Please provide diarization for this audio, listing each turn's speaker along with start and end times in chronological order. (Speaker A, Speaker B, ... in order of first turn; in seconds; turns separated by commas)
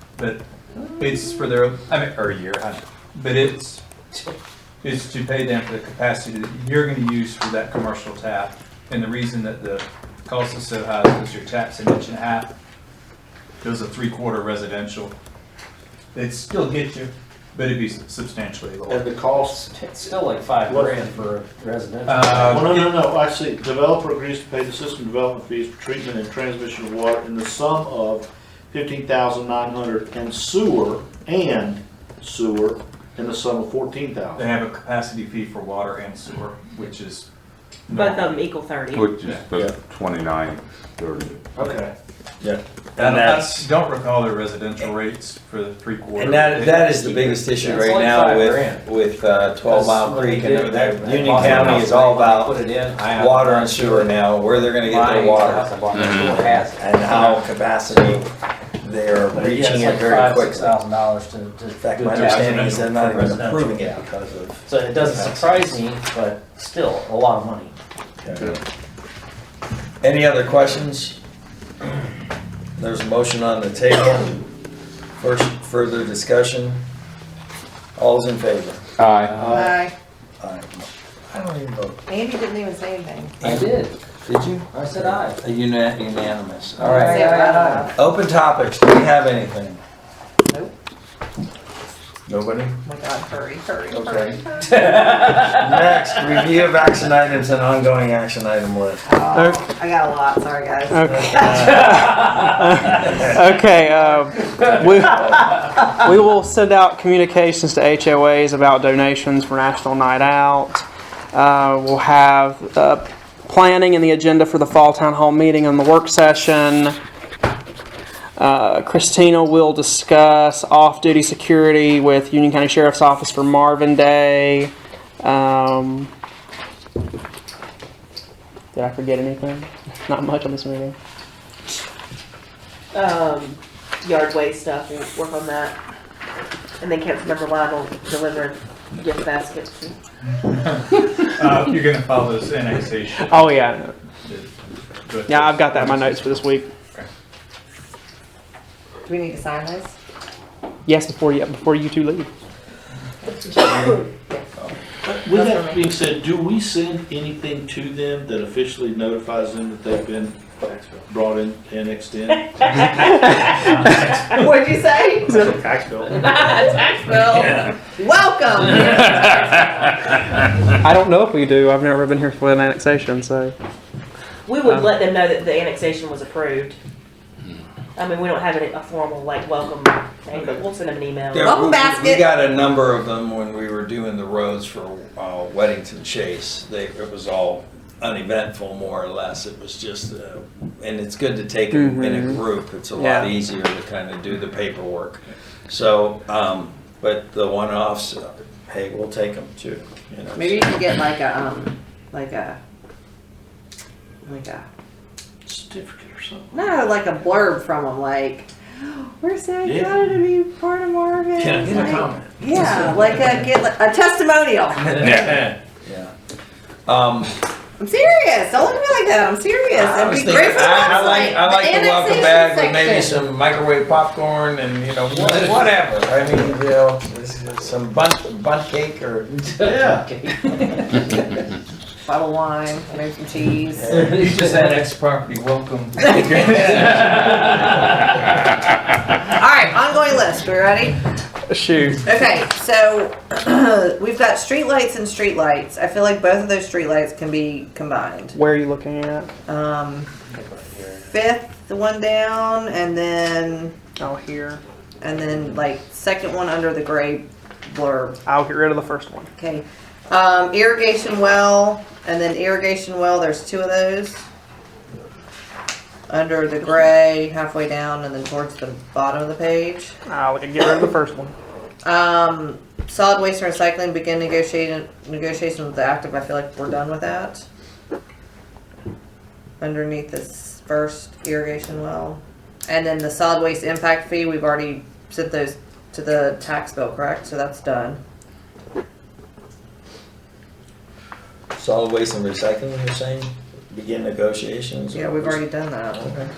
Speaker A: 0.1-0.4, Speaker A: 1.0-3.8, Speaker A: 4.8-12.5, Speaker A: 13.6-15.1, Speaker A: 16.1-19.1, Speaker B: 18.9-19.6, Speaker C: 19.5-22.6, Speaker B: 20.7-21.2, Speaker A: 22.1-22.9, Speaker B: 22.4-34.5, Speaker A: 34.4-37.2, Speaker A: 37.9-38.2, Speaker D: 37.9-39.1, Speaker E: 38.9-41.5, Speaker C: 41.5-41.9, Speaker B: 41.6-41.9, Speaker F: 42.4-43.7, Speaker A: 43.0-47.0, Speaker F: 46.1-58.3, Speaker C: 46.9-48.9, Speaker C: 49.6-57.5, Speaker E: 56.0-56.3, Speaker F: 58.8-60.8, Speaker C: 59.3-64.0, Speaker F: 61.8-65.5, Speaker A: 62.0-62.9, Speaker C: 64.7-67.7, Speaker F: 68.2-68.6, Speaker F: 70.0-71.2, Speaker F: 72.8-74.4, Speaker F: 75.2-76.8, Speaker F: 78.0-78.8, Speaker E: 79.0-79.4, Speaker C: 79.2-79.6, Speaker B: 79.4-79.9, Speaker G: 79.5-79.9, Speaker F: 80.4-82.0, Speaker G: 82.1-83.4, Speaker C: 83.4-83.9, Speaker F: 83.4-89.8, Speaker C: 84.7-85.4, Speaker C: 86.8-87.9, Speaker G: 86.8-87.9, Speaker F: 92.3-92.8, Speaker G: 92.8-94.8, Speaker F: 93.9-94.4, Speaker C: 94.8-95.4, Speaker F: 95.3-99.0, Speaker G: 99.1-102.2, Speaker H: 99.3-99.7, Speaker H: 100.9-117.0, Speaker F: 101.3-101.6, Speaker C: 102.0-102.9, Speaker G: 102.9-103.5, Speaker H: 118.4-126.1, Speaker H: 128.7-130.9, Speaker D: 132.9-135.8, Speaker D: 136.8-139.9, Speaker A: 140.4-144.5, Speaker H: 143.3-143.9, Speaker A: 145.0-146.2, Speaker H: 145.3-146.7, Speaker G: 149.1-149.9, Speaker H: 150.8-152.3, Speaker G: 153.7-153.9, Speaker B: 155.0-162.8, Speaker G: 155.3-155.8, Speaker D: 162.6-163.7, Speaker A: 163.6-164.1, Speaker G: 164.1-170.2, Speaker H: 170.8-173.5, Speaker D: 174.4-176.8, Speaker D: 177.9-181.8, Speaker F: 181.3-200.7, Speaker G: 181.4-182.3, Speaker H: 191.7-192.4, Speaker H: 192.9-193.3, Speaker G: 200.3-202.6, Speaker G: 204.2-204.7, Speaker B: 205.4-207.0, Speaker G: 206.5-215.1, Speaker B: 209.6-210.2, Speaker B: 211.7-212.2, Speaker F: 215.3-216.1, Speaker F: 216.8-217.3, Speaker G: 217.8-223.2, Speaker F: 219.7-230.1, Speaker C: 225.2-225.6, Speaker C: 229.5-231.0, Speaker G: 232.0-234.0, Speaker F: 233.9-234.7, Speaker A: 233.9-236.4, Speaker C: 233.9-234.8, Speaker F: 236.4-237.0, Speaker C: 236.4-237.5, Speaker G: 239.2-241.0, Speaker H: 241.5-242.1, Speaker G: 242.0-248.3, Speaker H: 248.3-249.3, Speaker G: 249.4-250.1, Speaker G: 250.9-253.8, Speaker H: 254.0-254.6, Speaker G: 255.0-258.2, Speaker H: 258.2-259.3, Speaker G: 259.4-264.2, Speaker G: 266.1-269.9, Speaker H: 270.1-271.3, Speaker G: 271.8-277.4, Speaker G: 279.6-288.0, Speaker F: 291.5-295.4, Speaker G: 294.9-296.1, Speaker F: 295.9-296.3